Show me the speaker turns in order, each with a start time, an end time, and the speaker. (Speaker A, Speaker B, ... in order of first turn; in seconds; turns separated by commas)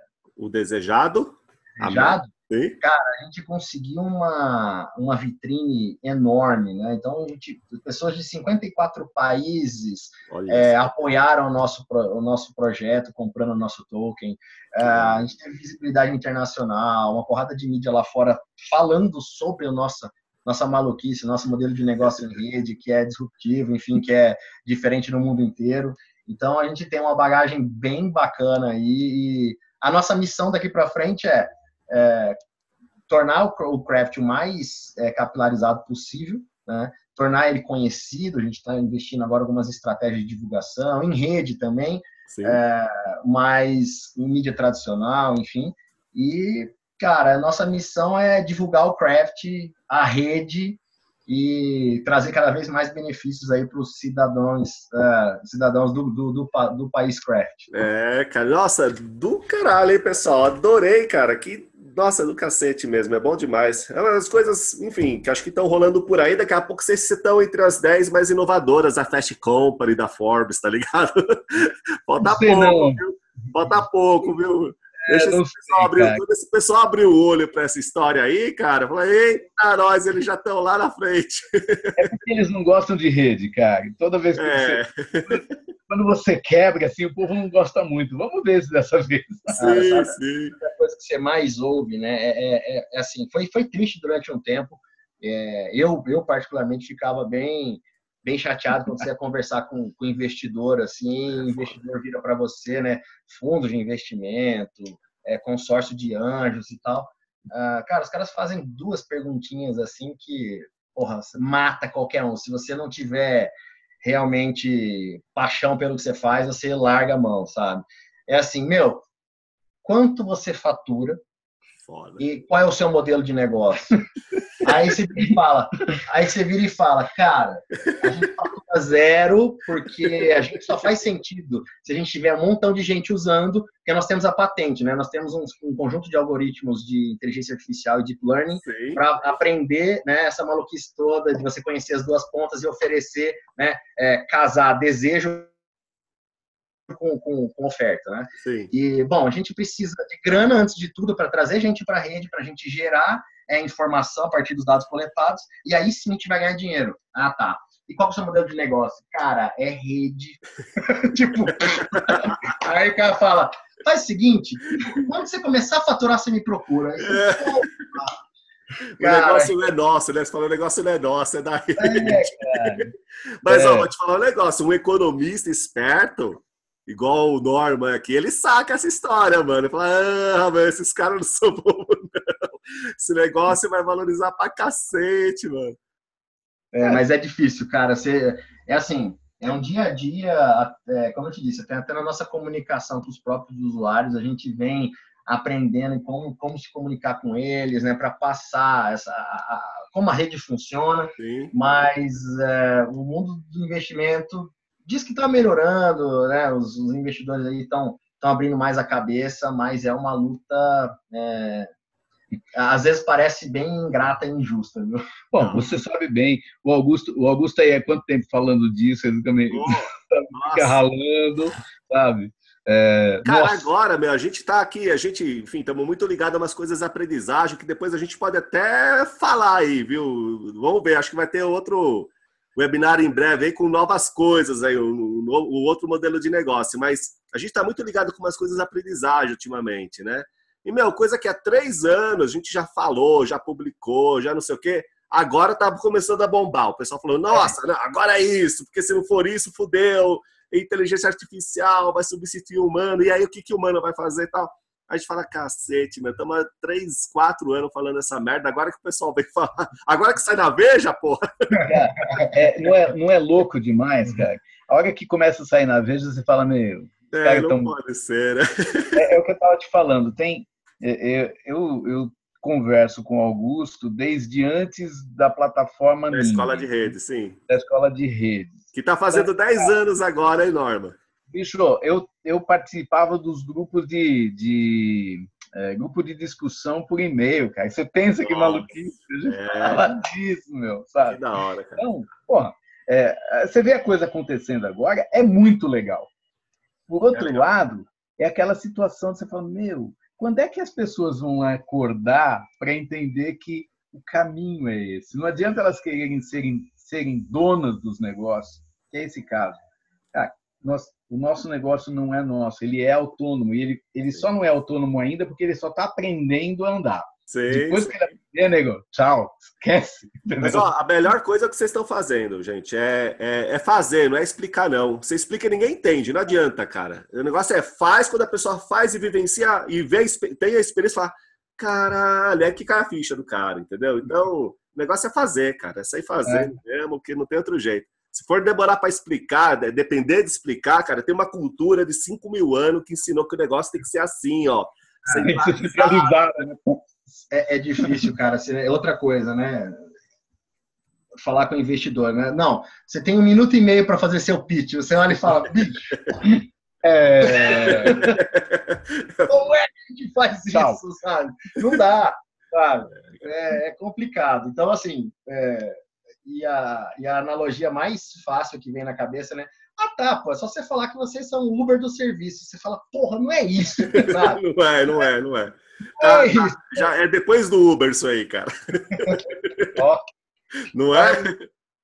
Speaker A: 0.4-2.8, Speaker B: 1.8-32.4, Speaker A: 10.3-10.8, Speaker A: 14.8-15.2, Speaker B: 33.1-57.7, Speaker A: 42.3-42.6, Speaker A: 57.7-82.1, Speaker C: 72.2-73.0, Speaker C: 75.0-76.2, Speaker C: 82.0-89.7, Speaker A: 84.3-85.6, Speaker A: 89.5-90.5, Speaker B: 89.6-119.0, Speaker A: 101.3-101.8, Speaker B: 119.8-121.2, Speaker A: 121.9-122.2, Speaker B: 122.2-124.0, Speaker B: 124.6-145.5, Speaker A: 138.6-139.0, Speaker B: 146.9-168.1, Speaker A: 148.4-148.7, Speaker A: 161.7-162.4, Speaker A: 167.0-167.9, Speaker A: 168.9-172.2, Speaker B: 169.0-169.6, Speaker B: 171.8-172.3, Speaker C: 171.8-172.9, Speaker A: 173.4-185.8, Speaker C: 173.5-173.9, Speaker B: 186.7-211.7, Speaker A: 201.2-201.5, Speaker B: 212.5-215.1, Speaker C: 215.3-223.6, Speaker A: 215.4-215.8, Speaker A: 219.5-220.8, Speaker A: 223.2-261.6, Speaker C: 261.7-267.7, Speaker A: 267.1-269.0, Speaker C: 268.9-276.9, Speaker A: 276.1-277.4, Speaker C: 277.5-279.7, Speaker A: 278.7-281.0, Speaker C: 281.3-291.2, Speaker A: 288.2-288.7, Speaker A: 289.2-289.9, Speaker A: 291.1-291.9, Speaker C: 291.8-296.1, Speaker C: 296.9-309.6, Speaker A: 297.1-297.5, Speaker C: 310.1-320.7, Speaker A: 317.3-317.9, Speaker A: 320.4-346.1, Speaker C: 336.2-336.5, Speaker C: 345.2-346.9, Speaker B: 347.3-349.8, Speaker B: 351.2-356.0, Speaker C: 356.2-358.1, Speaker B: 357.3-358.0, Speaker A: 357.9-359.3, Speaker B: 359.3-374.4, Speaker C: 360.5-360.8, Speaker A: 373.8-379.8, Speaker B: 376.0-376.9, Speaker C: 379.8-380.0, Speaker A: 380.7-381.4, Speaker B: 380.9-381.3